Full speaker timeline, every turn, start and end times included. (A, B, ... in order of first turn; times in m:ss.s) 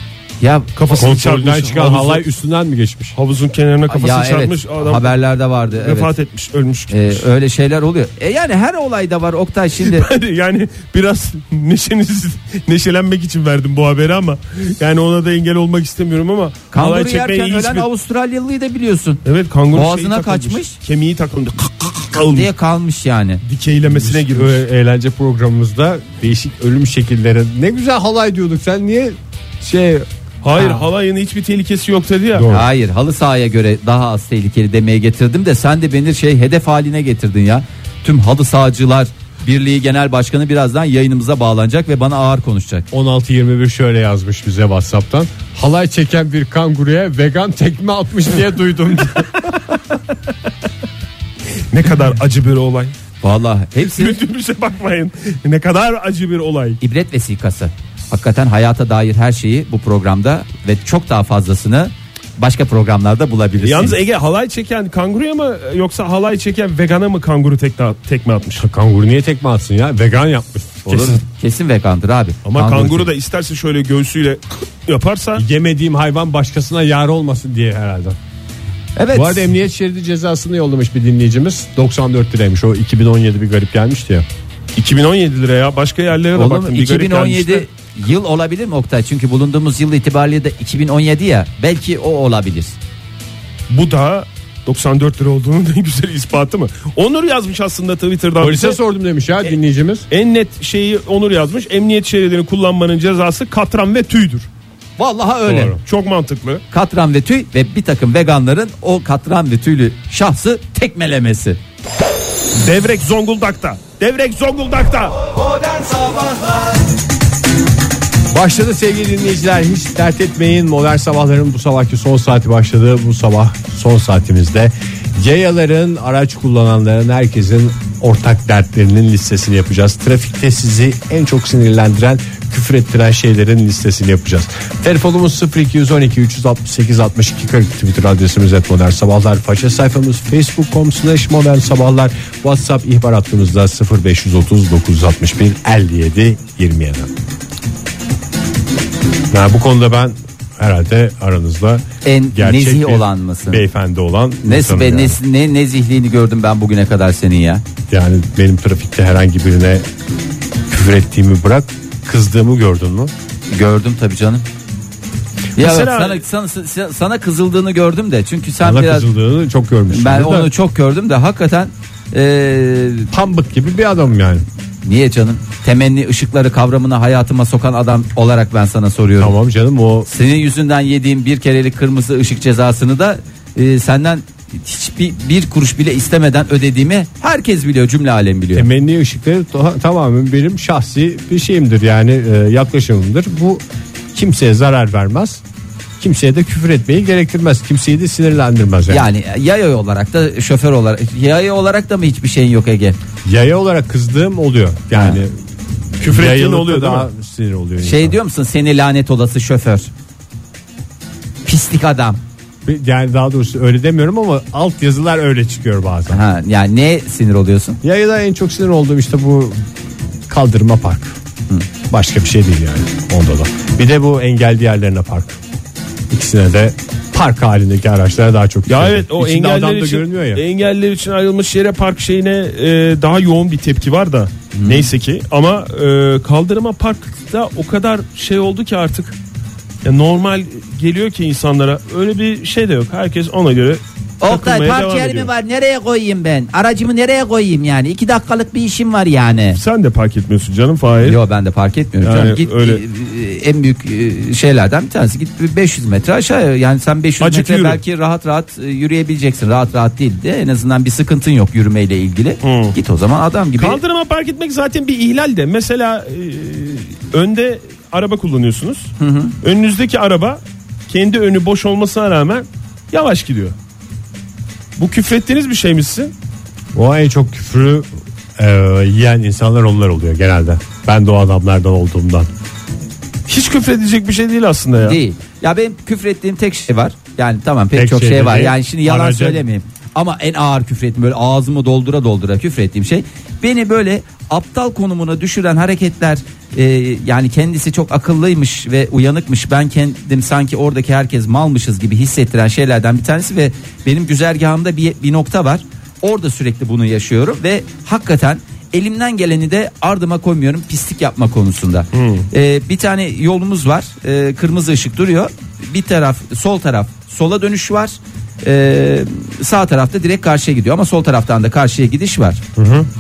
0:00.4-0:00.7 A
0:00.8-0:02.2 B
0:00.9-0:03.2 C
0:03.2-0:05.1 B
0:03.9-0:06.1 A
0:05.8-0:07.3 B
0:06.9-0:10.1 A
0:09.8-0:17.9 B
0:16.7-0:19.2 A
0:19.2-0:22.5 B
0:19.7-0:20.8 A
0:22.2-0:23.4 A
0:23.4-0:24.6 B
0:23.9-0:30.1 C
0:30.4-0:32.7 B
0:30.6-0:30.8 A
0:32.5-0:42.9 A
0:42.9-0:49.3 C
0:51.7-0:52.9 B
0:53.2-0:54.2 A
0:53.8-0:56.8 B
0:56.8-1:04.0 A
1:03.6-1:08.6 B
1:08.6-1:11.2 C
1:10.9-1:13.1 A
1:12.4-1:15.4 B
1:15.4-1:18.2 C
1:19.0-1:19.5 A
1:19.1-1:24.3 C
1:24.8-1:27.7 B
1:26.4-1:32.8 A
1:33.7-1:38.8 B
1:38.4-1:40.1 C
1:40.1-1:44.5 B
1:45.0-1:45.8 A
1:45.5-1:46.6 B
1:45.5-1:45.8 C
1:46.7-1:51.6 A
1:52.6-1:55.2 B
1:58.3-2:27.1 C
2:29.3-2:35.2 C
2:32.0-2:33.6 A
2:34.4-2:37.6 A
2:37.9-2:39.9 C
2:40.7-2:43.1 C
2:43.5-2:44.4 A
2:45.6-2:49.1 A
2:45.6-2:46.2 B
2:48.6-2:50.5 C
2:49.9-2:53.1 A
2:53.1-2:54.4 C
2:54.8-2:59.3 A
2:59.2-3:00.1 C
3:00.1-3:08.7 A
3:08.5-3:15.4 C
3:16.0-3:19.1 C
3:18.9-3:23.0 A
3:23.2-3:25.3 C
3:24.9-3:25.2 A
3:26.0-3:28.2 C
3:26.0-3:27.1 B
3:27.8-3:29.9 A
3:31.4-3:32.2 A
3:32.6-3:36.2 C
3:36.1-3:37.8 A
3:37.8-3:39.7 C
3:40.3-3:41.2 C
3:41.9-3:45.4 C
3:46.1-3:50.4 C
3:48.7-3:59.2 B
3:54.5-3:54.9 A
3:59.8-4:05.3 B
4:04.2-4:09.6 A
4:09.5-4:11.2 B
4:11.0-4:23.8 A
4:12.0-4:12.8 B
4:17.2-4:17.8 B
4:22.4-4:22.8 B
4:23.6-4:33.6 B
4:29.0-4:29.3 A
4:34.8-4:36.1 B
4:36.7-4:42.3 C
4:43.3-4:45.0 B
4:44.8-5:22.4 A
4:47.7-4:49.4 C
5:11.9-5:12.3 B
5:22.6-5:22.9 C